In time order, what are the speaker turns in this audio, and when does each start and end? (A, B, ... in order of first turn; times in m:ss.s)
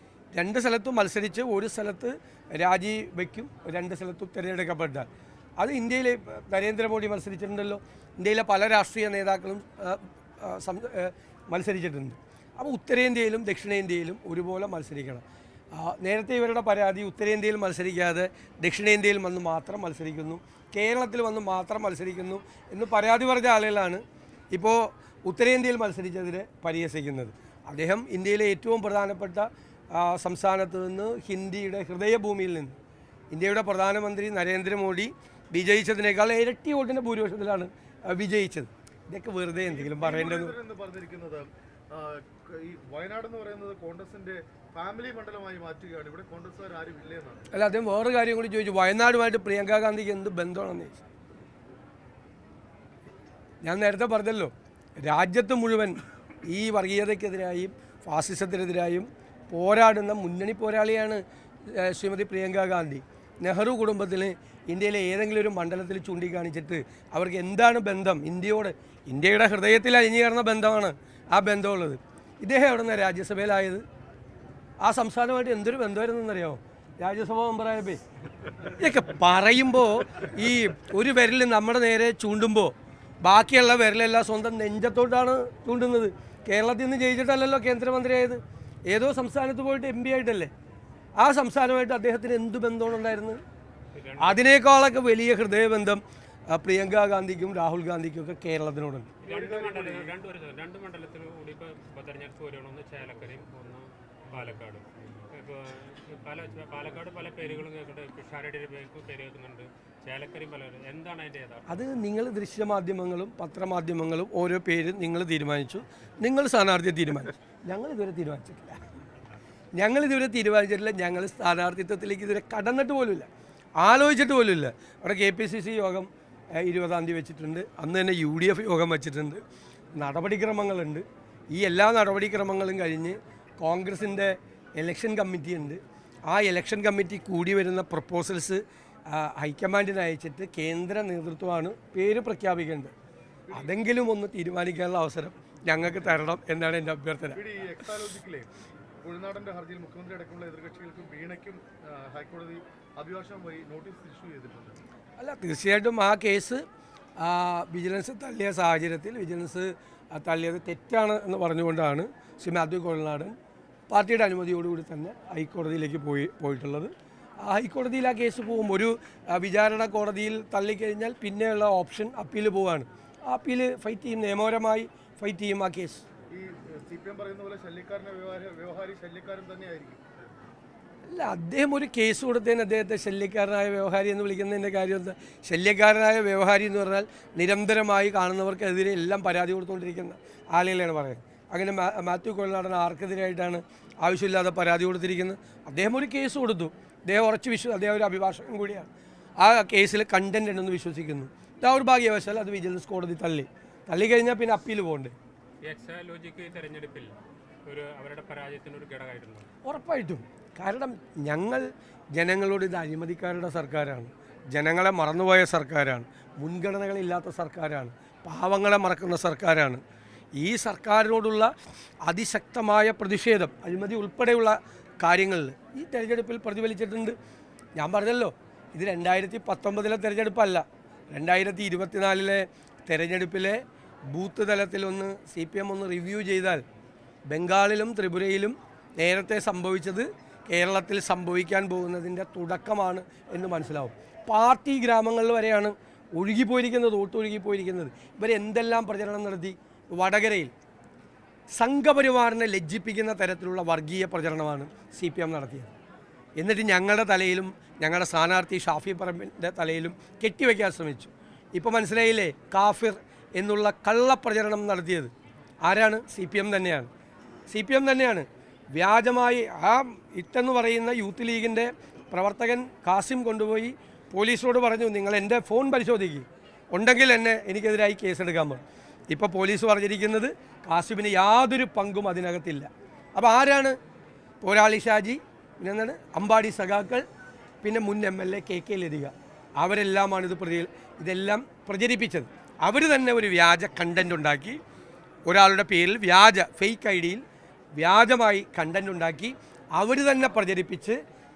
0:00.3-0:24.0 A
0:24.5-0:32.8 A
0:33.3-0:40.6 A
0:39.6-0:47.5 B
0:47.5-0:51.0 A
0:53.6-1:13.8 A
1:14.8-1:18.0 A
1:18.8-1:30.5 A
1:31.2-1:33.4 A
1:33.9-1:34.4 C
1:34.2-1:39.1 A
1:39.2-1:51.9 C
1:39.2-1:40.1 B
1:51.7-1:58.8 A
1:59.8-2:03.3 A
2:03.8-2:09.4 A
2:09.9-2:22.9 A
2:23.5-2:23.8 B
2:23.5-2:27.4 A
2:27.3-2:28.5 B
2:29.0-2:34.8 B
2:35.2-2:36.6 A
2:37.2-2:43.3 A
2:43.9-2:56.0 A
2:56.3-3:00.0 B
3:01.1-3:25.1 A
3:25.6-3:27.1 C
3:27.7-3:29.5 C
3:29.6-3:39.8 A
3:40.4-3:41.5 A
3:42.0-3:47.2 A
3:47.8-3:56.6 A
3:57.3-4:10.5 A
4:11.6-4:15.7 A
4:16.4-4:25.1 A
4:25.6-4:26.9 A
4:27.5-4:43.8 A
4:44.4-4:47.0 A
4:47.6-4:54.6 A
4:55.3-4:57.2 A
4:57.8-5:01.0 A